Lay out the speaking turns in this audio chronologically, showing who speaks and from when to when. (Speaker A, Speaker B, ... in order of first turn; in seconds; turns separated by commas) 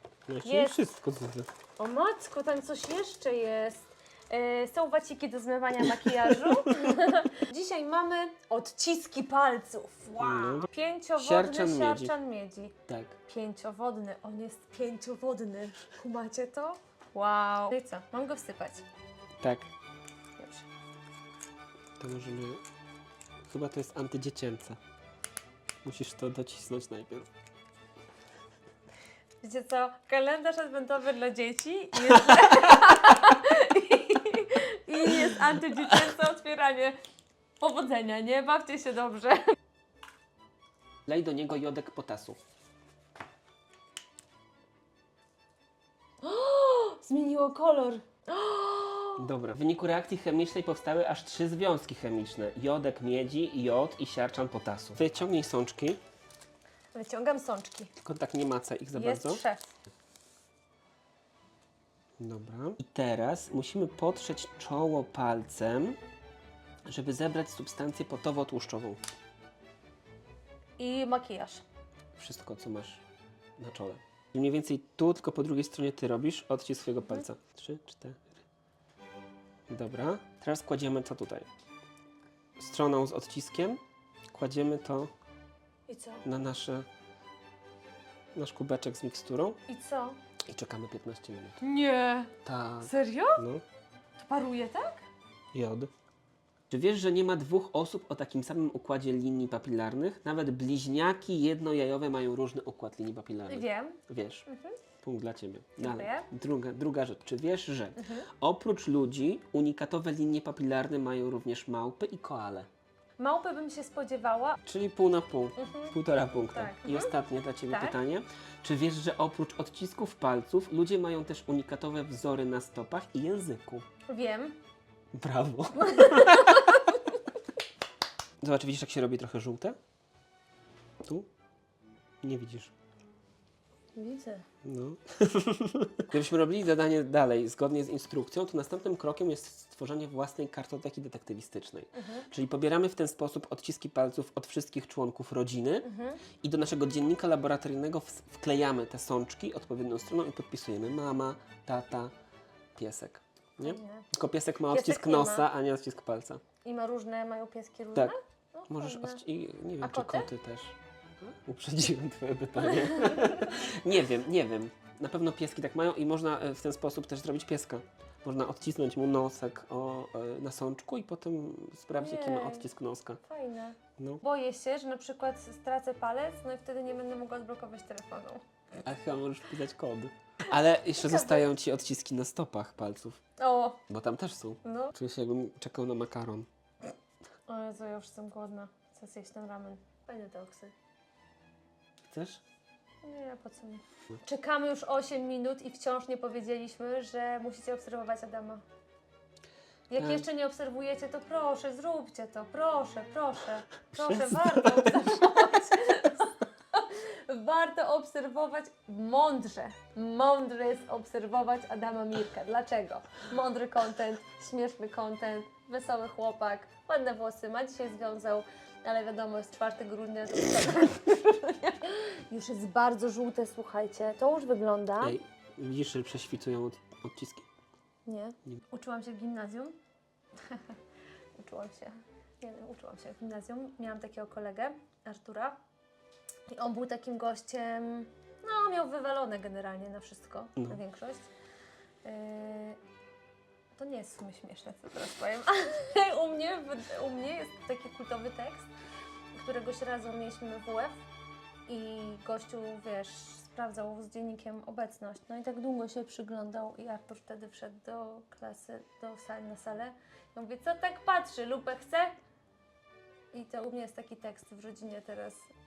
Speaker A: 0.3-1.5, Speaker B: 0.4-0.8, Speaker B: 1.8-12.8, Speaker A: 6.3-6.7, Speaker A: 10.2-12.1, Speaker A: 12.9-13.2, Speaker B: 13.3-18.8, Speaker A: 19.4-19.7, Speaker B: 20.4-20.7, Speaker A: 22.0-22.6, Speaker A: 23.5-24.8, Speaker A: 25.8-27.3, Speaker B: 29.4-37.0, Speaker B: 37.6-39.4, Speaker A: 41.1-42.4, Speaker B: 46.2-49.2, Speaker A: 49.2-56.0, Speaker B: 56.9-57.9, Speaker A: 58.0-59.4, Speaker B: 58.9-59.7, Speaker A: 62.2-66.0, Speaker A: 66.8-69.0, Speaker B: 70.8-71.6, Speaker A: 72.2-73.0, Speaker A: 73.6-78.4, Speaker A: 79.7-81.5, Speaker A: 82.6-83.8, Speaker A: 84.3-85.1, Speaker B: 85.9-86.2, Speaker A: 86.2-86.9, Speaker A: 88.3-89.6, Speaker B: 89.7-90.2, Speaker A: 90.5-91.6, Speaker B: 91.6-92.3, Speaker A: 92.4-93.6, Speaker B: 92.8-93.4, Speaker B: 94.2-95.0, Speaker A: 95.5-95.9, Speaker A: 96.7-104.5, Speaker B: 103.5-104.8, Speaker A: 105.0-112.7, Speaker B: 105.8-106.3, Speaker B: 108.0-108.2, Speaker B: 113.2-114.6, Speaker A: 114.6-123.8, Speaker B: 115.6-117.1, Speaker B: 117.7-118.0, Speaker B: 124.1-124.6, Speaker A: 125.1-126.8, Speaker B: 125.8-126.9, Speaker A: 128.4-129.8, Speaker A: 132.2-132.7, Speaker B: 133.9-134.4, Speaker A: 134.6-145.9, Speaker B: 141.9-142.2, Speaker B: 145.8-146.2, Speaker A: 146.4-152.1, Speaker A: 152.8-156.4, Speaker B: 153.6-154.1, Speaker B: 154.7-155.4, Speaker B: 156.6-159.2, Speaker A: 158.7-173.2, Speaker B: 159.8-160.3, Speaker B: 162.6-163.6, Speaker B: 172.0-172.7, Speaker B: 173.2-178.4, Speaker A: 174.0-174.2, Speaker A: 178.8-183.2, Speaker B: 181.0-181.4, Speaker B: 183.4-183.8, Speaker A: 183.9-186.5, Speaker B: 184.6-184.9, Speaker B: 187.5-190.7, Speaker A: 192.1-192.4, Speaker B: 193.0-198.6, Speaker B: 199.9-225.2, Speaker A: 200.0-200.2, Speaker A: 204.0-204.9, Speaker A: 225.0-227.4, Speaker B: 228.1-229.8, Speaker B: 230.4-230.8, Speaker B: 231.4-235.6, Speaker B: 236.5-241.3, Speaker B: 242.0-242.8, Speaker B: 243.8-248.7, Speaker B: 249.3-251.0, Speaker B: 251.7-262.1, Speaker B: 263.3-265.5